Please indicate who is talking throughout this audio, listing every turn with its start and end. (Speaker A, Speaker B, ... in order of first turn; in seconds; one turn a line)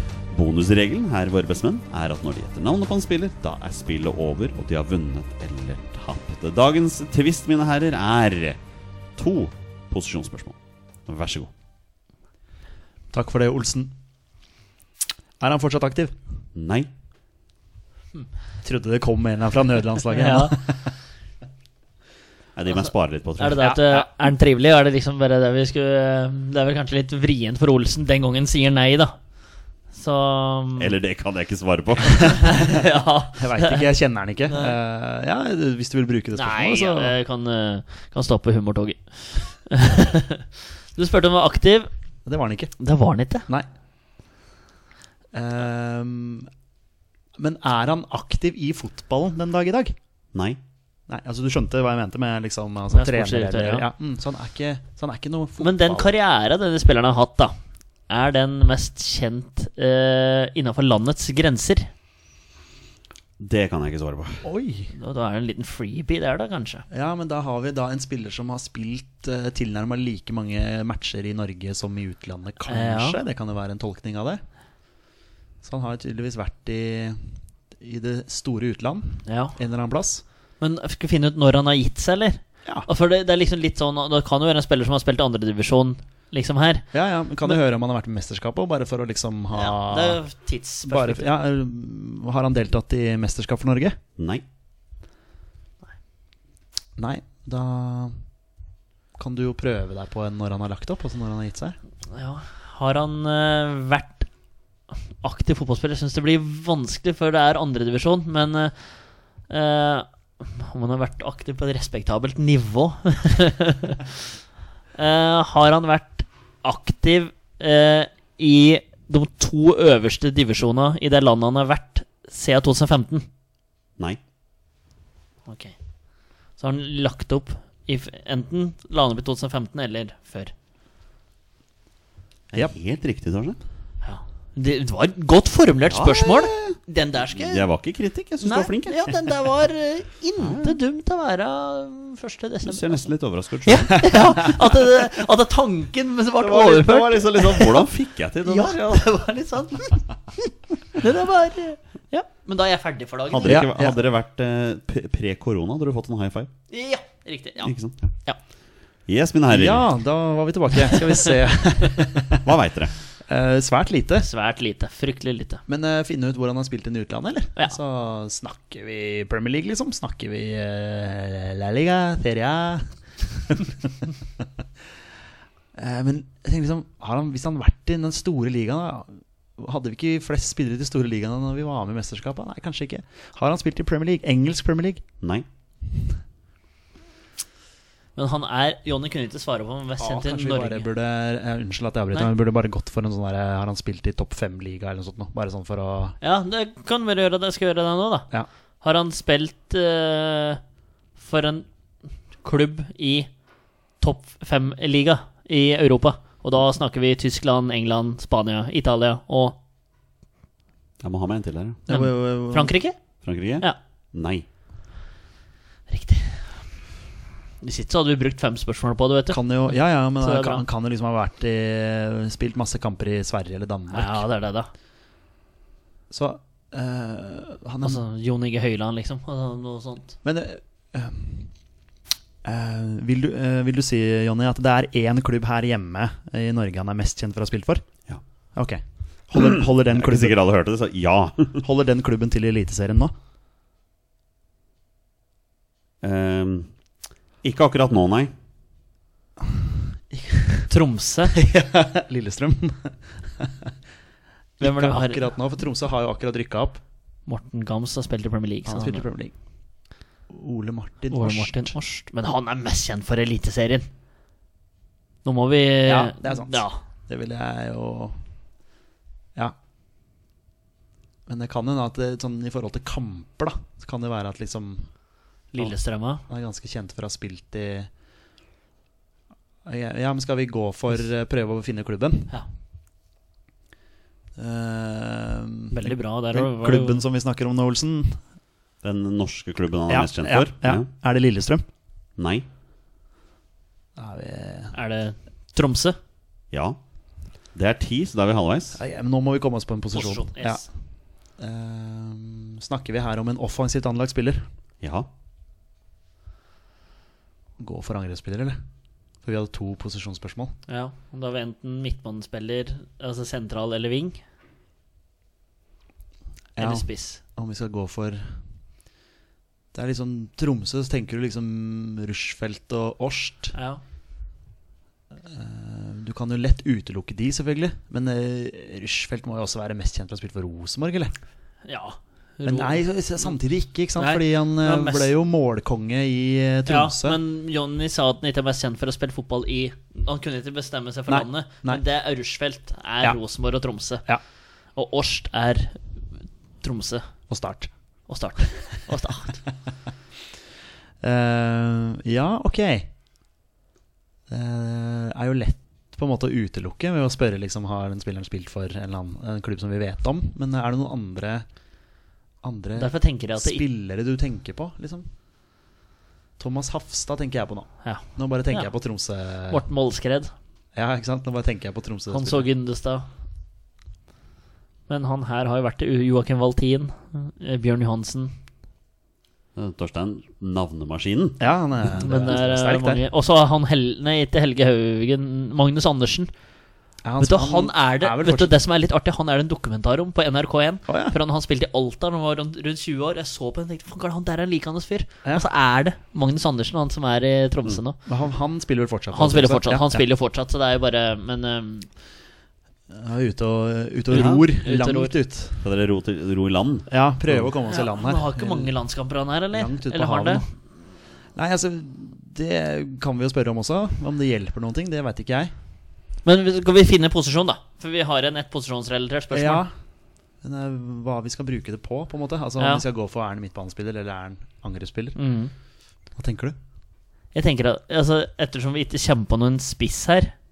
Speaker A: 0.3-8.6
Speaker A: 9.2-11.5
Speaker B: 13.1-13.9
Speaker B: 15.4-16.1
Speaker A: 16.5-16.9
Speaker B: 18.6-20.9
Speaker C: 20.1-20.6
Speaker A: 22.6-23.6
Speaker C: 23.4-29.1
Speaker B: 23.6-24.1
Speaker C: 29.9-30.9
Speaker A: 30.8-32.5
Speaker C: 32.2-33.9
Speaker B: 32.4-32.8
Speaker B: 33.4-37.1
Speaker C: 34.5-34.7
Speaker C: 36.3-41.9
Speaker B: 42.2-42.7
Speaker C: 42.8-43.5
Speaker B: 45.3-46.5
Speaker B: 47.4-49.9
Speaker A: 50.3-50.6
Speaker B: 51.1-56.1
Speaker C: 52.9-53.8
Speaker C: 55.6-57.5
Speaker C: 58.1-61.9
Speaker A: 63.4-64.4
Speaker B: 64.4-64.9
Speaker C: 64.9-66.8
Speaker B: 66.9-74.4
Speaker C: 72.7-73.2
Speaker B: 75.6-77.2
Speaker B: 77.8-80.2
Speaker C: 79.3-79.6
Speaker C: 80.6-86.9
Speaker B: 86.9-90.2
Speaker C: 89.5-91.3
Speaker B: 90.8-94.0
Speaker A: 94.2-94.4
Speaker B: 97.0-98.2
Speaker B: 99.2-101.8
Speaker C: 102.1-104.3
Speaker C: 105.2-108.7
Speaker C: 109.5-114.2
Speaker C: 115.0-123.2
Speaker C: 125.5-125.7
Speaker C: 126.6-130.5
Speaker A: 132.5-133.6
Speaker C: 134.0-137.7
Speaker A: 135.8-136.8
Speaker A: 137.3-139.2
Speaker C: 138.4-143.1
Speaker A: 140.4-140.8
Speaker A: 142.6-144.2
Speaker C: 143.6-147.9
Speaker A: 146.4-148.8
Speaker C: 148.4-153.7
Speaker A: 153.3-156.5
Speaker B: 153.4-153.9
Speaker C: 156.7-157.7
Speaker A: 157.6-158.1
Speaker A: 159.1-159.8
Speaker B: 159.5-162.4
Speaker C: 160.9-161.3
Speaker A: 162.4-162.9
Speaker B: 163.2-164.3
Speaker C: 164.2-165.6
Speaker B: 165.7-174.1
Speaker B: 175.7-185.0
Speaker A: 185.2-185.4
Speaker C: 188.2-190.9
Speaker B: 190.0-196.2
Speaker C: 196.2-198.3
Speaker C: 198.8-200.6
Speaker C: 201.2-201.7
Speaker C: 202.4-203.3
Speaker C: 204.0-209.6
Speaker A: 211.0-211.8
Speaker C: 211.9-213.0
Speaker B: 211.9-212.7
Speaker A: 213.2-214.4
Speaker C: 215.9-216.6
Speaker C: 217.6-220.6
Speaker B: 219.3-224.2
Speaker C: 223.9-224.7
Speaker B: 226.1-228.0
Speaker C: 227.8-230.1
Speaker B: 230.2-231.5
Speaker B: 232.4-237.9
Speaker B: 238.5-240.3
Speaker A: 239.9-241.6
Speaker B: 241.6-243.1
Speaker A: 246.0-246.7
Speaker A: 247.4-248.3
Speaker B: 250.1-250.7
Speaker C: 250.7-251.3
Speaker B: 251.3-253.7
Speaker B: 254.6-256.8
Speaker C: 254.6-255.3
Speaker C: 257.3-259.1
Speaker B: 258.6-259.3
Speaker B: 260.3-261.8
Speaker C: 261.1-263.9
Speaker C: 265.2-266.8
Speaker B: 265.8-268.2
Speaker B: 271.3-274.9
Speaker C: 275.6-276.2
Speaker B: 276.3-277.9
Speaker B: 279.6-282.4
Speaker B: 284.4-288.2
Speaker C: 285.7-287.0
Speaker A: 288.8-290.9
Speaker B: 289.9-291.6
Speaker A: 292.2-292.4
Speaker B: 294.0-294.7
Speaker C: 294.7-295.9
Speaker A: 296.5-296.8
Speaker A: 297.5-298.8
Speaker B: 298.7-300.7
Speaker C: 299.9-300.6
Speaker B: 301.4-304.4
Speaker A: 304.8-305.1
Speaker B: 307.6-308.6
Speaker B: 309.2-310.5
Speaker C: 310.7-314.2
Speaker B: 316.6-318.4
Speaker C: 316.6-317.2
Speaker B: 319.7-323.5
Speaker C: 323.5-323.8
Speaker B: 325.3-331.1
Speaker C: 331.6-333.3
Speaker B: 332.4-337.2
Speaker C: 334.0-335.1
Speaker C: 336.6-344.0
Speaker B: 341.1-341.8
Speaker C: 344.7-345.8
Speaker C: 346.6-347.1
Speaker B: 347.3-347.7
Speaker C: 348.1-349.4
Speaker B: 351.0-352.9
Speaker B: 354.3-361.4
Speaker B: 362.4-365.1
Speaker C: 362.8-363.6
Speaker B: 366.4-369.6
Speaker C: 367.8-368.7
Speaker C: 369.5-370.3
Speaker B: 370.7-372.5
Speaker C: 372.1-373.1
Speaker C: 374.9-378.3
Speaker A: 379.5-381.4
Speaker B: 381.4-383.0
Speaker C: 382.0-386.3
Speaker B: 387.0-388.5
Speaker C: 387.2-398.0
Speaker B: 390.9-391.1
Speaker B: 398.1-400.0
Speaker C: 399.1-401.9
Speaker B: 402.9-405.6
Speaker A: 404.1-404.4
Speaker C: 404.1-405.1
Speaker A: 405.6-407.5
Speaker B: 406.9-408.7
Speaker C: 407.7-410.4
Speaker B: 409.5-410.4
Speaker B: 411.3-415.5
Speaker C: 416.2-419.6
Speaker B: 419.3-419.7
Speaker B: 420.4-425.2
Speaker C: 425.1-425.5
Speaker B: 426.1-426.6
Speaker C: 427.3-430.3